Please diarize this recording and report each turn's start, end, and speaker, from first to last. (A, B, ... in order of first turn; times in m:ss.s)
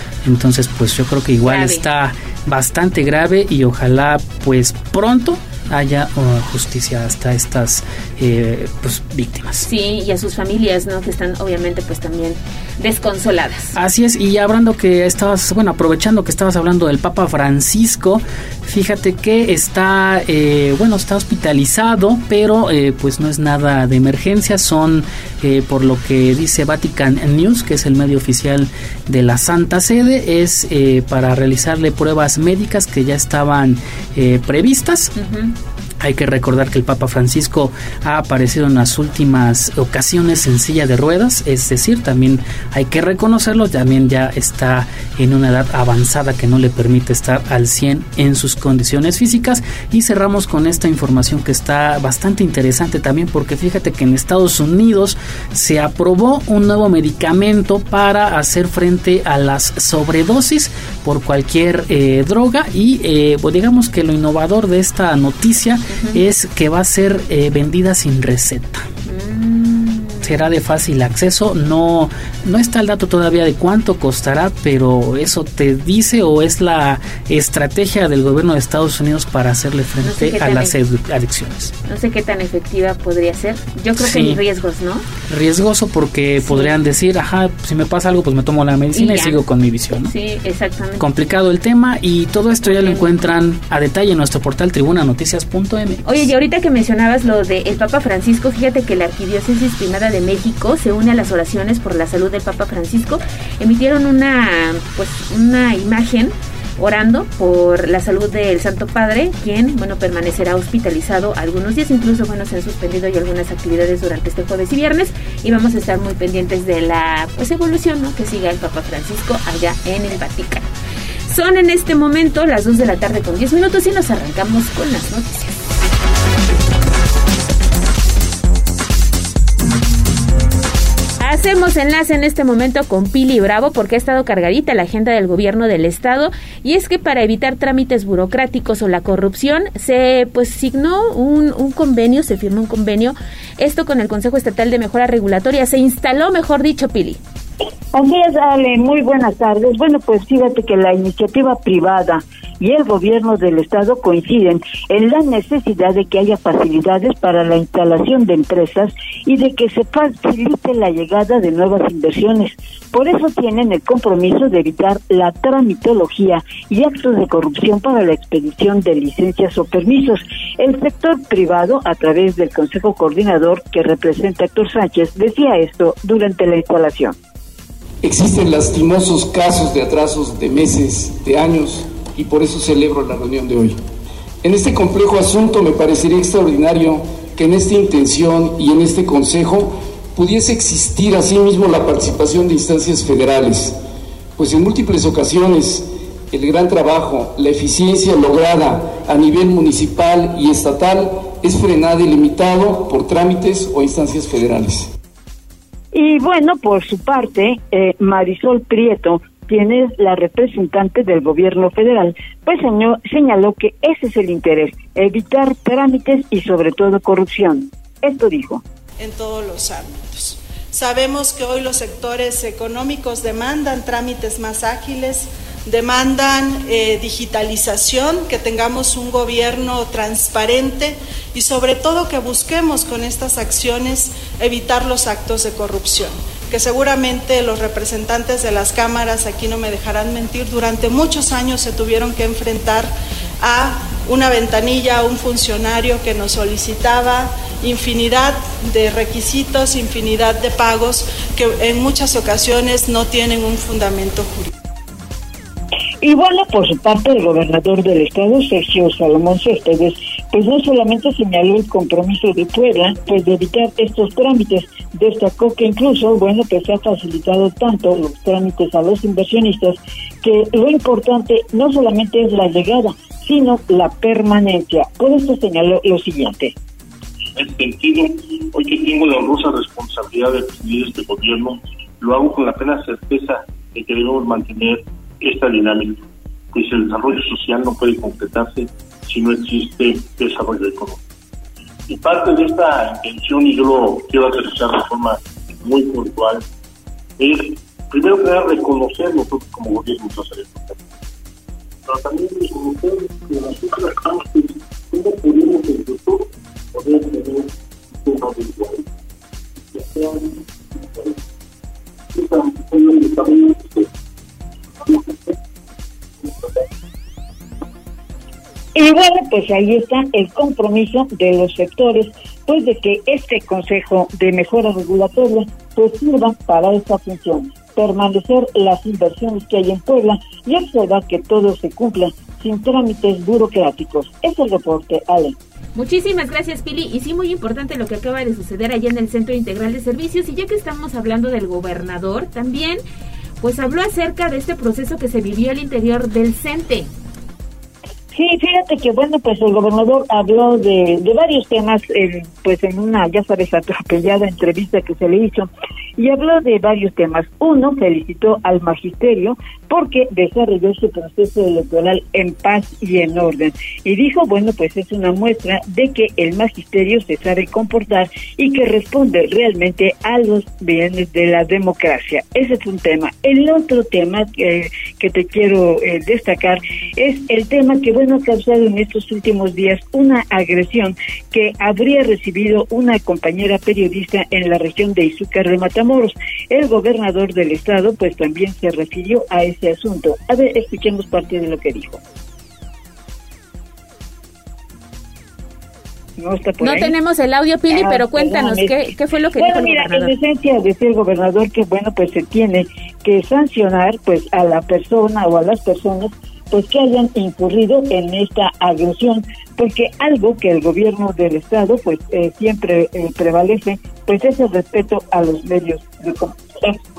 0:00.2-0:09.7 A
0:01.4-0:01.8 B
0:09.6-0:13.8 B
0:13.8-0:35.1 A
0:35.2-0:35.5 B
0:36.0-1:08.8 A
1:05.9-1:06.2 B
1:09.1-1:10.4 B
1:10.2-1:21.7 A
1:20.0-1:20.7 B
1:21.9-1:25.0 B
1:24.0-1:24.4 A
1:25.3-1:30.1 A
1:26.4-1:26.7 B
1:28.9-1:29.4 B
1:30.0-1:31.1 B
1:31.0-1:36.3 A
1:32.6-1:33.1 B
1:36.0-2:00.6 B
2:01.3-2:05.6 B
2:11.2-2:27.2 B
2:27.9-2:57.2 C
2:58.0-3:03.8 D
3:04.4-3:13.8 D
3:14.4-3:24.9 D
3:25.9-3:38.6 C
3:39.0-4:14.5 E
4:16.0-4:36.5 C
4:37.4-4:51.0 F
4:51.9-4:56.4 F
4:57.2-5:00.8 F
5:01.9-5:07.5 F
5:08.0-5:08.8 F
5:09.7-5:10.4 F
5:12.2-5:13.8 F
5:18.8-5:35.4 C
5:35.8-5:42.8 B
5:43.4-5:46.9 B
5:48.1-6:32.0 C
6:36.2-6:36.9 C
6:36.6-6:40.1 B
6:37.7-6:56.6 C